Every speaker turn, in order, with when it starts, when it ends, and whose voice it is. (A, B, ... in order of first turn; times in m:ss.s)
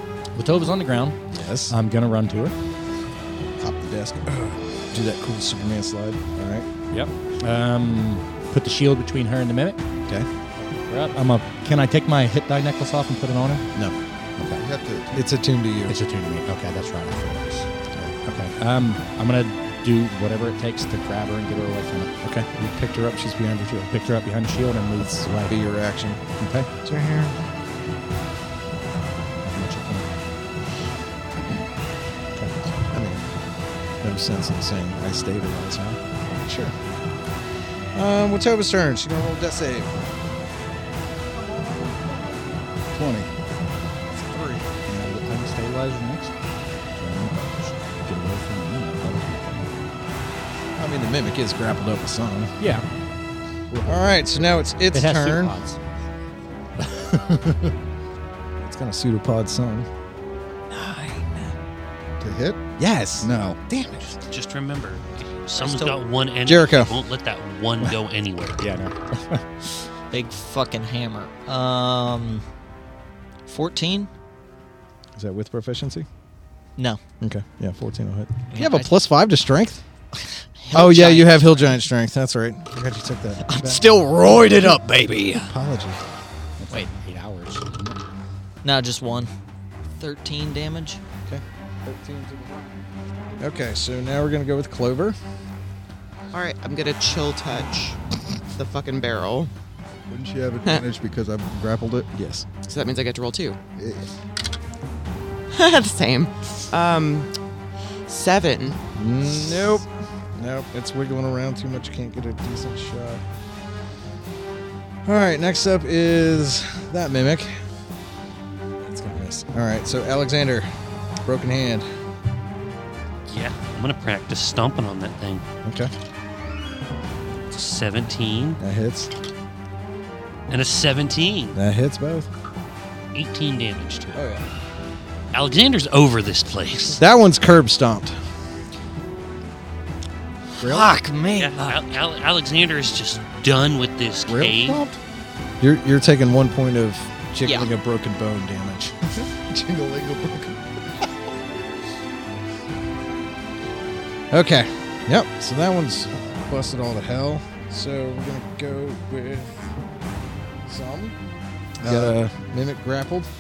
0:00.4-0:01.2 A
0:01.3-0:01.8 B
0:01.7-0:02.5 A
0:03.5-0:06.7 B
0:06.9-0:09.8 A
0:10.6-0:13.6 A
0:14.4-0:14.6 A
0:14.6-0:15.3 C
0:15.2-0:16.0 B
0:15.9-0:17.7 A
0:18.2-0:22.1 A
0:22.2-0:23.9 B
0:23.9-0:25.5 A
0:25.0-0:26.2 B
0:26.4-0:26.7 A
0:26.8-0:27.4 B
0:29.4-0:30.1 A
0:32.4-0:33.3 B
0:34.0-0:36.7 B
0:38.0-0:39.9 B
0:41.4-0:42.3 B
0:42.9-0:43.3 C
0:44.1-0:44.7 B
0:44.9-0:45.2 C
0:45.0-0:46.3 A
0:46.9-0:49.7 A
0:50.8-0:52.6 B
0:52.6-0:52.8 A
0:53.7-0:54.4 C
0:53.9-0:55.6 B
0:54.9-0:55.9 A
0:56.8-0:57.7 A
0:58.6-0:59.9 B
1:00.7-1:01.6 B
1:02.2-1:02.6 C
1:02.8-1:04.2 B
1:03.2-1:03.6 C
1:04.2-1:08.6 D
1:06.4-1:06.9 B
1:08.6-1:09.4 A
1:10.1-1:12.4 E
1:13.5-1:14.1 E
1:15.2-1:16.1 B
1:17.2-1:19.8 B
1:18.5-1:18.9 E
1:20.6-1:21.8 E
1:20.7-1:24.0 B
1:23.5-1:25.5 E
1:25.4-1:26.0 B
1:26.6-1:28.0 A
1:28.6-1:29.3 E
1:30.0-1:31.0 E
1:31.3-1:32.6 B
1:33.4-1:35.2 B
1:36.3-1:38.0 F
1:38.6-1:39.5 F
1:40.1-1:42.1 C
1:42.1-1:42.5 B
1:42.6-1:43.6 F
1:43.8-1:44.1 C
1:45.5-1:47.3 F
1:48.1-1:48.8 F
1:49.0-1:53.2 B
1:55.0-1:57.6 B
1:58.8-2:00.7 B
2:01.2-2:01.9 B
2:03.3-2:05.4 D
2:05.6-2:05.9 B
2:07.5-2:08.6 D
2:08.6-2:09.1 B
2:10.5-2:11.6 D
2:11.6-2:12.3 B
2:13.1-2:14.2 D
2:14.2-2:14.5 B
2:15.3-2:17.0 D
2:17.0-2:18.2 B
2:20.6-2:21.8 E
2:20.6-2:20.9 C
2:21.4-2:24.8 D
2:24.3-2:25.0 C
2:25.6-2:29.0 B
2:27.4-2:27.7 E
2:29.2-2:31.1 C
2:34.3-2:39.6 B
2:40.6-2:41.2 B
2:41.8-2:43.3 B
2:41.8-2:42.1 C